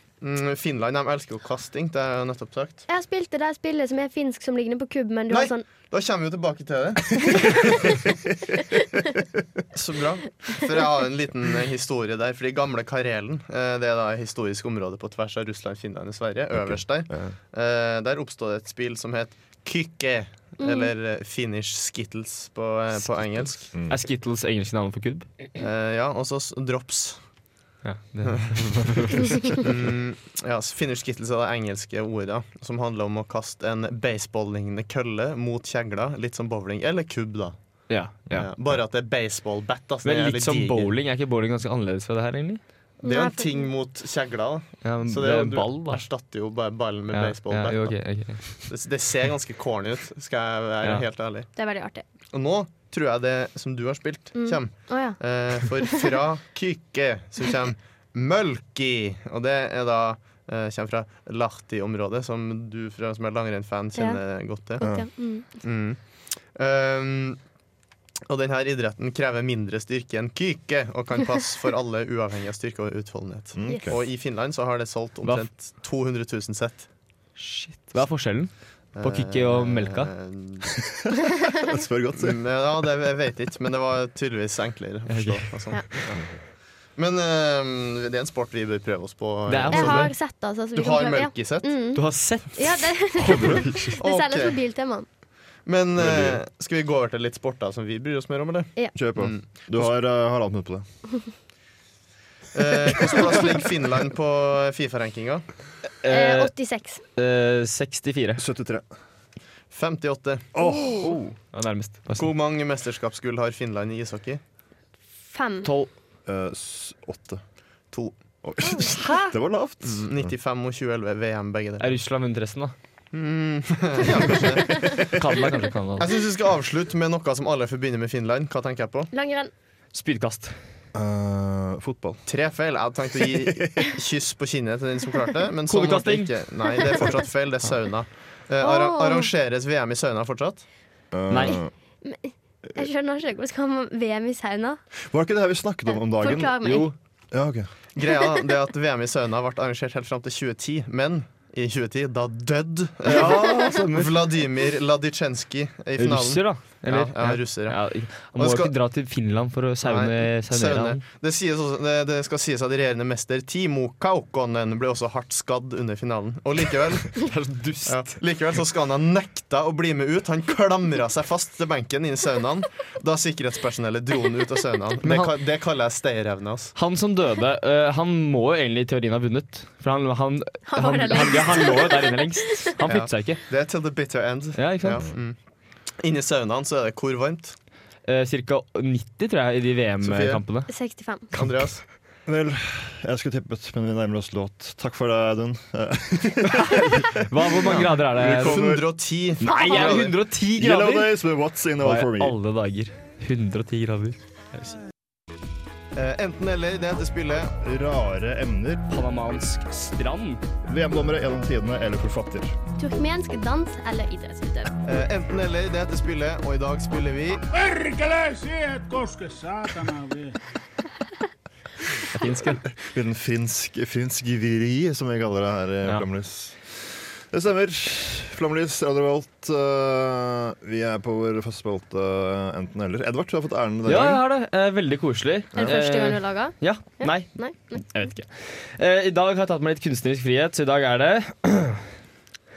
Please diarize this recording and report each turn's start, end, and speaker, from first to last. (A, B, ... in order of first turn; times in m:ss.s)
0:00.2-0:02.8 A
0:02.9-0:05.6 B
0:05.3-0:07.8 A
0:07.4-0:07.7 B
0:09.7-0:23.7 A
0:16.5-0:17.4 C
0:20.6-0:20.9 B
0:23.7-0:25.3 D
0:23.7-0:24.0 C
0:25.6-0:27.2 A
0:27.8-0:29.6 D
0:29.6-0:40.9 A
0:37.9-0:38.5 D
0:40.0-0:42.6 D
0:43.0-0:43.7 B
0:43.0-0:51.5 A
0:44.8-0:46.0 D
0:47.1-0:48.6 D
0:51.6-0:52.0 B
0:52.3-1:04.8 A
0:54.4-0:55.2 B
1:04.0-1:04.2 B
1:04.8-1:05.5 B
1:04.8-1:05.1 C
1:05.6-1:06.0 A
1:06.6-1:07.4 A
1:08.3-1:16.9 A
1:13.6-1:14.0 C
1:17.4-1:20.1 D
1:19.0-1:20.7 A
1:21.6-1:22.4 C
1:22.2-1:26.2 A
1:25.1-1:26.1 D
1:27.0-1:30.2 A
1:29.5-1:30.1 D
1:29.7-1:35.1 B
1:30.7-1:31.7 A
1:32.0-1:34.0 D
1:33.3-1:33.7 C
1:34.0-1:34.6 A
1:35.6-1:39.9 A
1:36.0-1:36.4 C
1:39.0-1:40.8 C
1:42.5-1:45.4 A
1:46.0-1:46.5 D
1:46.1-1:47.0 B
1:47.2-1:48.4 D
1:48.4-1:48.9 C
1:49.7-1:50.5 A
1:50.6-1:51.2 C
1:50.6-1:51.1 B
1:51.0-1:52.3 D
1:52.2-1:54.4 A
1:55.3-1:55.7 B
1:55.6-1:55.9 D
1:56.3-1:57.4 C
1:58.4-2:00.3 C
1:59.0-1:59.3 D
1:59.8-2:02.0 A
2:01.8-2:02.7 D
2:03.1-2:05.2 A
2:05.0-2:06.1 D
2:06.0-2:09.1 A
2:09.1-2:09.5 B
2:09.9-2:10.6 D
2:10.9-2:12.2 C
2:12.3-2:20.7 A
2:13.5-2:13.9 C
2:15.7-2:16.3 D
2:18.6-2:19.3 B
2:21.1-2:21.7 C
2:21.3-2:21.6 D
2:22.0-2:24.8 B
2:25.0-2:27.7 C
2:25.9-2:26.9 B
2:26.6-2:26.9 D
2:28.0-2:38.7 A
2:33.1-2:34.1 C
2:33.2-2:34.1 D
2:36.0-2:41.0 D
2:39.8-2:47.2 A
2:47.2-2:48.2 D
2:47.9-2:56.8 A
2:55.0-2:55.3 D
2:56.8-3:03.4 D
3:00.7-3:02.2 B
3:02.8-3:05.4 A
3:04.6-3:05.0 D
3:06.0-3:07.6 A
3:08.0-3:10.7 D
3:10.0-3:10.4 A
3:10.7-3:11.3 B
3:11.3-3:11.8 A
3:12.3-3:18.8 C
3:17.2-3:18.6 D
3:17.7-3:20.1 A
3:19.4-3:21.2 D
3:19.5-3:20.0 B
3:20.5-3:22.4 C
3:21.8-3:24.2 D
3:26.0-3:27.6 A
3:27.6-3:28.9 C
3:28.9-3:30.4 D
3:30.6-3:32.6 C
3:32.8-3:34.7 B
3:34.8-3:37.4 A
3:37.5-3:40.4 E
3:42.1-3:42.6 D
3:42.7-3:54.2 C
3:53.9-4:01.8 D
3:55.6-3:58.1 B